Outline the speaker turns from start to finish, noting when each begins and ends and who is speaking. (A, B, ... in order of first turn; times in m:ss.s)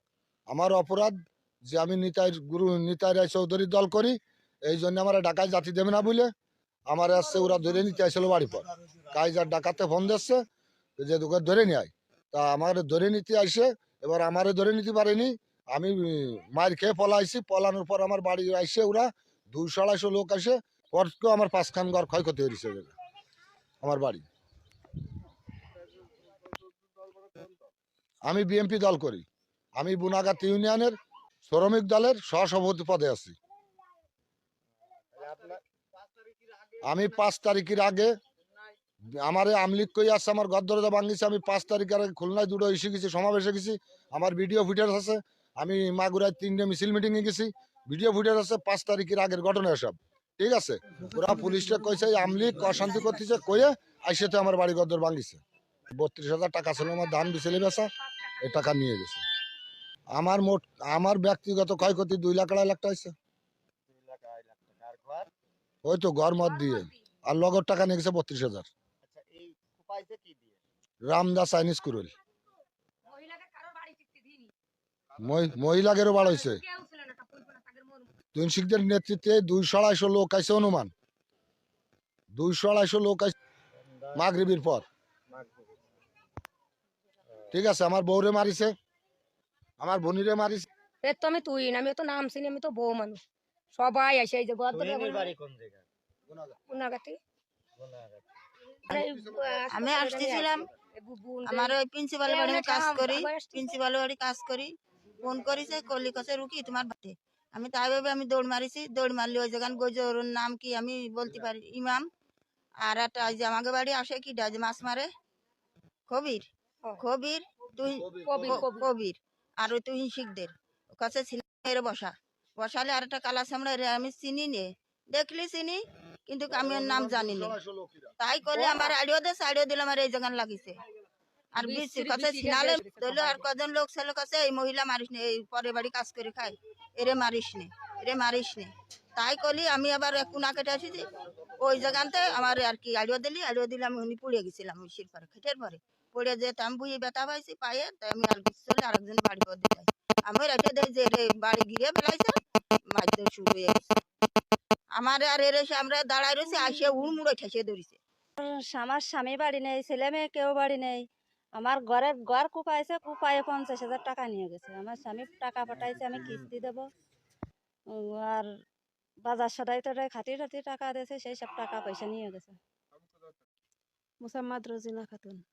0:00.5-0:01.1 A
0:01.7-0:06.3 A
0:06.9-0:10.4 A
0:11.0-0:22.9 A
0:23.8-0:24.2 A
0:28.2-0:29.2 A
0:29.8-0:30.9 A
0:31.5-0:33.4 A
0:35.1-0:35.6 B
0:36.8-0:38.1 A
0:39.2-0:55.4 A
0:52.7-0:53.3 C
0:55.9-0:57.9 A
0:58.4-0:59.2 A
1:00.1-1:03.1 A
1:03.9-1:05.3 B
1:05.8-1:08.7 A
1:09.0-1:10.6 B
1:11.0-1:12.1 A
1:13.1-1:14.5 D
1:15.2-1:16.6 A
1:16.2-1:18.1 D
1:18.3-1:20.9 A
1:22.3-1:23.3 A
1:24.1-1:24.8 A
1:25.3-1:25.6 B
1:27.5-1:28.7 A
1:29.8-1:30.7 A
1:31.0-1:33.2 D
1:33.7-1:35.3 D
1:34.7-1:35.8 B
1:36.3-1:36.5 A
1:36.7-1:37.2 D
1:37.8-1:38.2 B
1:38.8-1:43.7 D
1:39.7-1:40.7 C
1:41.4-1:52.0 C
1:52.8-1:55.1 C
1:56.1-1:56.4 C
1:57.0-2:07.6 C
1:57.9-1:58.6 A
1:58.2-1:58.9 D
2:06.5-2:08.1 A
2:08.2-2:10.8 C
2:08.5-2:08.9 D
2:11.5-2:21.1 C
2:11.6-2:13.4 D
2:21.6-2:32.3 C
2:32.9-2:33.9 C
2:35.0-2:38.0 C
2:38.4-2:41.0 E
2:41.6-2:46.9 E
2:47.9-2:48.5 E
2:49.2-2:52.6 E